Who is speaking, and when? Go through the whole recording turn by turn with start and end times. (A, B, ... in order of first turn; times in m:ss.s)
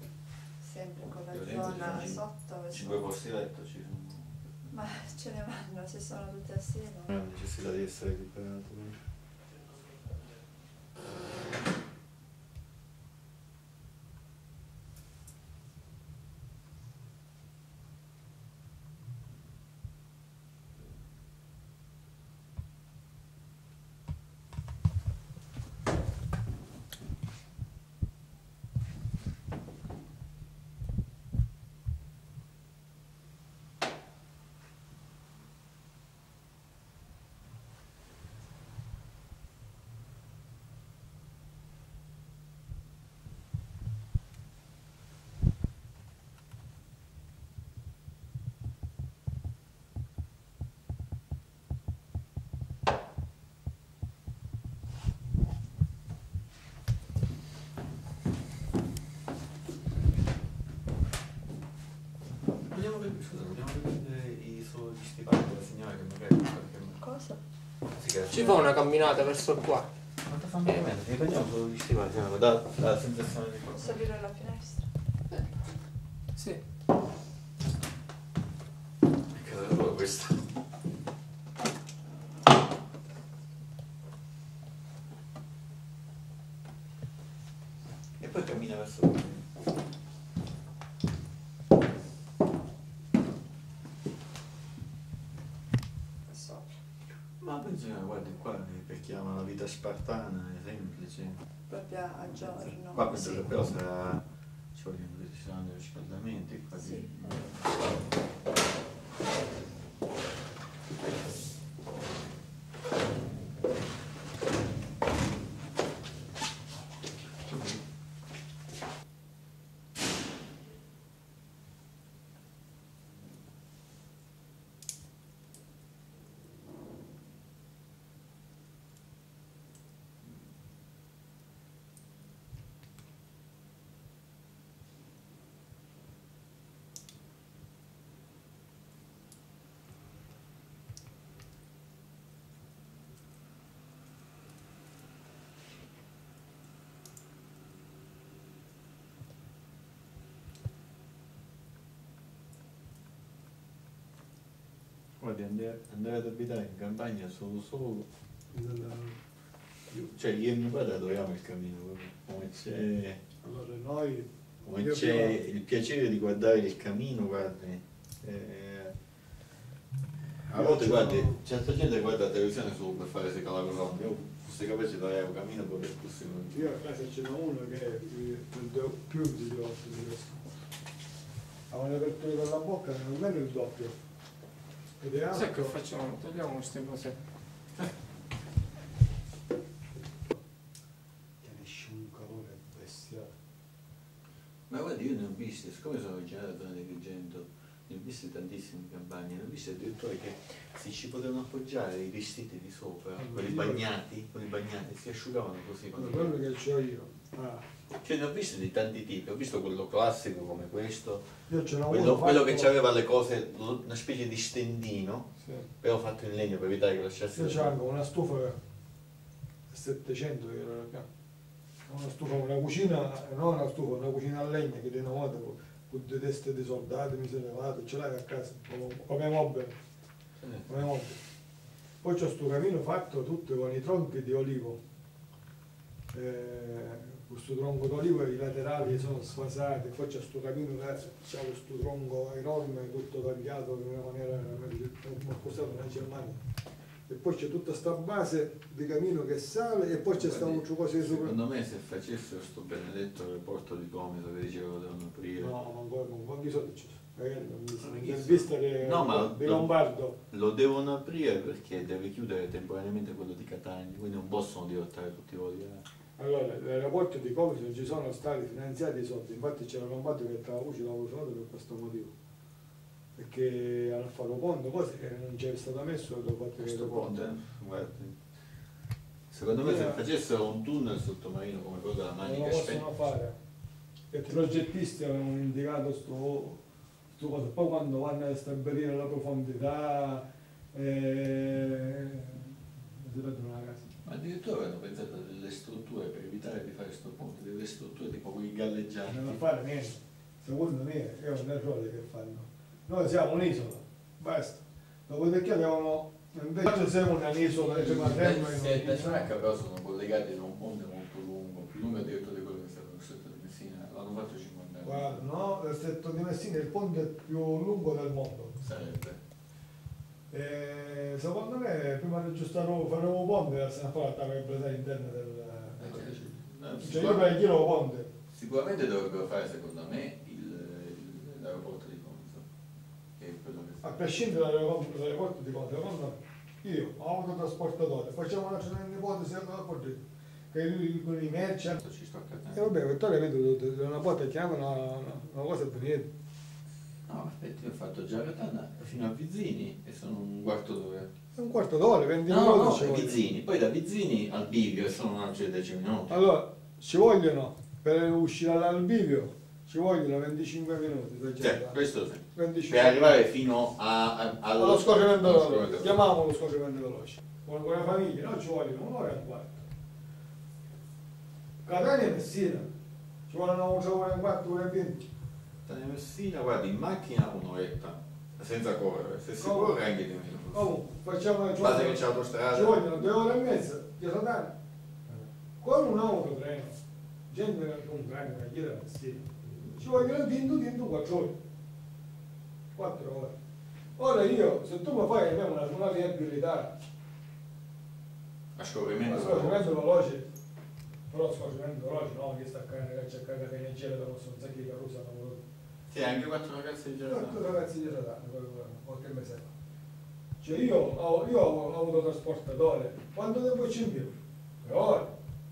0:00.6-0:03.0 A
0:01.3-0:04.4 B
0:04.7-0:07.1 A
0:07.1-0:09.0 B
1:02.7-1:07.0 B
1:07.0-1:07.4 A
1:07.9-1:08.6 B
1:08.3-1:09.9 C
1:10.2-1:14.0 B
1:13.8-1:14.9 A
1:16.3-1:16.6 C
1:19.3-1:20.4 B
1:28.2-1:29.4 B
1:36.3-1:36.8 A
1:37.4-1:41.4 B
1:41.7-1:43.5 A
1:42.9-1:44.2 B
1:44.7-1:47.8 B
1:46.8-1:47.1 A
1:57.5-1:57.8 B
2:35.2-2:38.0 B
2:38.5-2:39.2 D
2:39.9-2:43.2 B
2:43.4-2:45.4 D
2:44.6-2:48.9 B
2:50.3-2:56.7 B
2:50.5-2:51.4 D
2:56.5-3:00.4 D
3:01.7-3:04.0 D
3:05.0-3:05.7 D
3:05.3-3:07.2 C
3:11.4-3:13.3 D
3:14.7-3:26.3 B
3:23.2-3:23.8 D
3:25.9-3:27.6 D
3:27.9-3:31.3 B
3:31.5-3:32.7 D
3:31.9-3:35.3 B
3:35.4-3:35.7 D
3:35.8-3:37.7 B
3:37.3-3:38.6 D
3:39.7-3:41.1 D
3:41.9-3:49.7 D
3:50.4-3:50.7 B
3:50.7-3:51.2 D
3:52.0-3:54.8 D
3:56.1-4:06.4 D
4:07.1-4:11.4 D
4:10.2-4:15.5 B
4:15.4-4:20.2 D
4:17.8-4:19.7 B
4:20.3-4:25.8 B
4:26.2-4:32.1 D
4:33.2-4:37.2 D
4:36.6-4:38.2 B
4:39.3-4:42.8 B
4:39.6-4:40.0 D
4:42.2-4:43.4 D
4:44.1-4:46.6 D
4:47.1-4:53.9 D
4:54.0-4:59.4 B
4:59.1-5:09.2 D
5:07.6-5:15.2 B
5:14.8-5:18.6 D
5:18.6-5:19.2 B
5:20.3-5:28.1 D
5:25.8-5:27.3 B
5:28.3-5:32.4 B
5:33.2-5:33.9 B
5:33.8-5:40.0 D
5:40.5-5:41.8 D
5:41.8-5:42.7 B
5:42.5-5:46.1 D
5:47.0-5:51.1 B
5:51.3-5:53.2 D
5:52.3-5:56.2 B
5:56.1-6:01.8 D
6:01.4-6:06.0 B
6:02.3-6:03.2 D
6:04.6-6:09.6 D
6:11.6-6:12.7 D
6:13.3-6:15.0 D
6:15.6-6:20.7 B
6:19.4-6:19.8 D
6:20.5-6:24.5 D
6:21.6-6:22.8 B
6:25.1-6:26.7 D
6:27.3-6:31.4 D
6:32.7-6:33.3 D
6:34.0-6:36.7 D
6:38.6-6:39.7 B
6:39.0-6:40.3 D
6:41.1-6:45.4 D
6:45.9-6:47.4 B
6:47.0-6:49.5 D
6:50.4-6:55.1 D